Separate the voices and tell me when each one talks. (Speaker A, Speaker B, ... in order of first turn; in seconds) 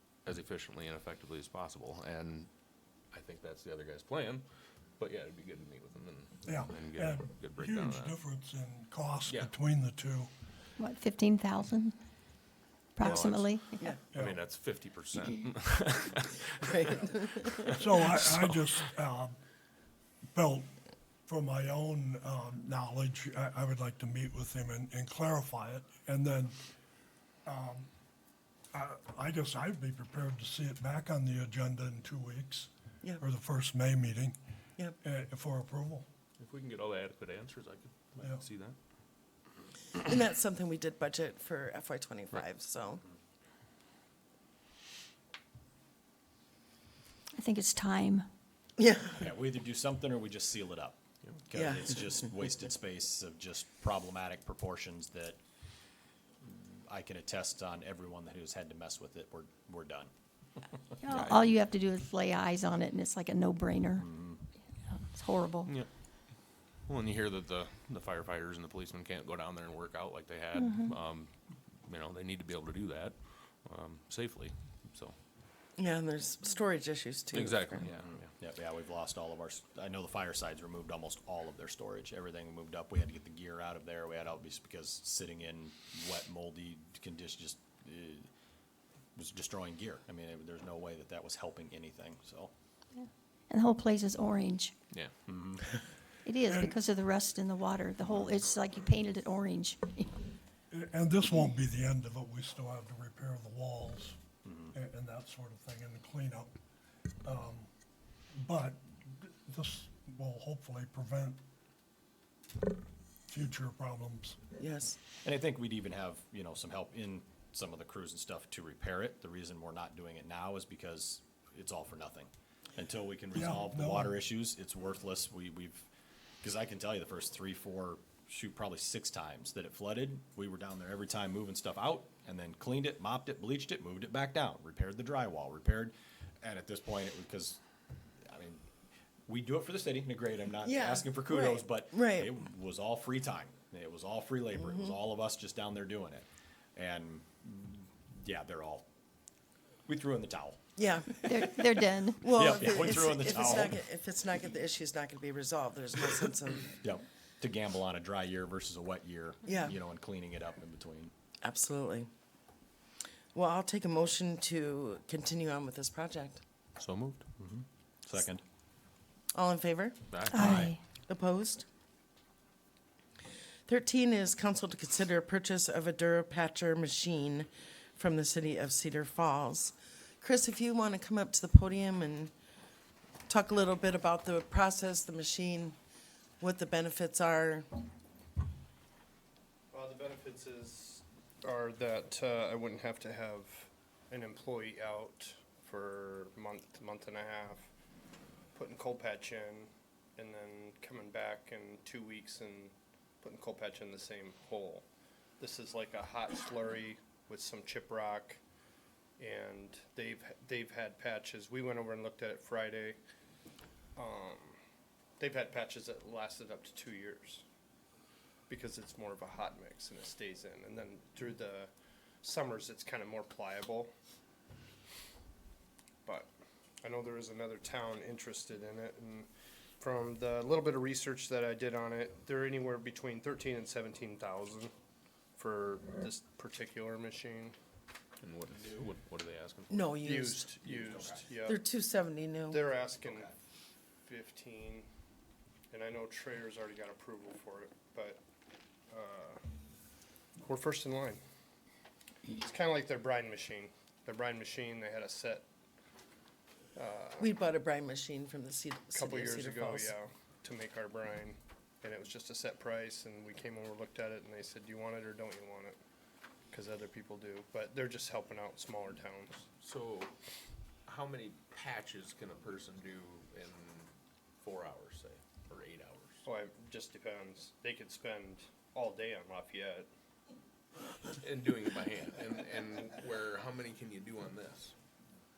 Speaker A: 0.2-2.5, 3.1-4.4, 5.0-8.2, 9.2-9.5, 13.0-18.6, 36.4-38.8, 61.1-61.4, 66.9-75.2, 77.3-78.3, 166.8-167.2, 170.1-170.7, 238.2-239.8, 269.6-270.1, 270.9-276.2, 281.2-284.7
Speaker B: 6.4-10.3, 14.1-14.4, 17.7-19.4, 20.3-20.7, 21.3-26.6, 27.4-27.9, 28.7-34.4, 35.0-36.0, 96.5-96.8, 100.7-104.2, 104.7-106.5, 107.2-107.7, 108.3-111.4, 113.3-114.4, 123.3-124.2
Speaker C: 10.8-12.0, 12.9-13.9, 47.4-48.2, 61.0-64.1, 64.8-65.7, 93.0-94.7, 96.2-100.1, 151.2-152.3, 170.3-170.8
Speaker D: 16.6-17.6, 40.0-43.0, 48.8-49.3, 51.5-52.0, 75.8-77.8, 114.6-115.0, 140.6-142.3, 144.6-144.9, 150.8-151.3, 152.2-156.8, 159.5-159.8, 161.4-162.1, 163.3-166.4, 169.3-170.0, 171.1-171.7, 173.7-182.3, 183.3-185.8, 186.4-187.7, 239.7-240.5, 241.4-242.6, 257.2-259.9
Speaker E: 49.2-51.0, 51.5-55.4, 56.4-60.1, 64.0-64.4, 77.8-88.3, 89.1-92.5, 95.3-95.7, 104.4-104.7, 115.2-125.9, 126.4-137.6, 138.2-138.6, 139.3-148.8, 149.9-150.6, 151.1-151.6, 152.2-153.8, 156.8-161.1, 167.4-168.4, 170.3-170.7, 238.6-238.9, 240.6-241.2, 243.0-243.3
Speaker F: 189.7-197.7, 198.5-204.8, 205.4-208.4, 209.2-213.0, 213.9-214.6, 215.2-217.4, 218.5-221.7, 222.2-223.9, 226.8-229.3, 229.8-234.7, 235.3-237.5, 240.1-241.6, 242.5-243.3, 244.1-244.9, 245.7-248.2, 248.9-249.4, 250.4-251.2, 252.3-255.4, 256.8-257.3, 258.9-265.8, 266.5-269.4, 276.2-279.9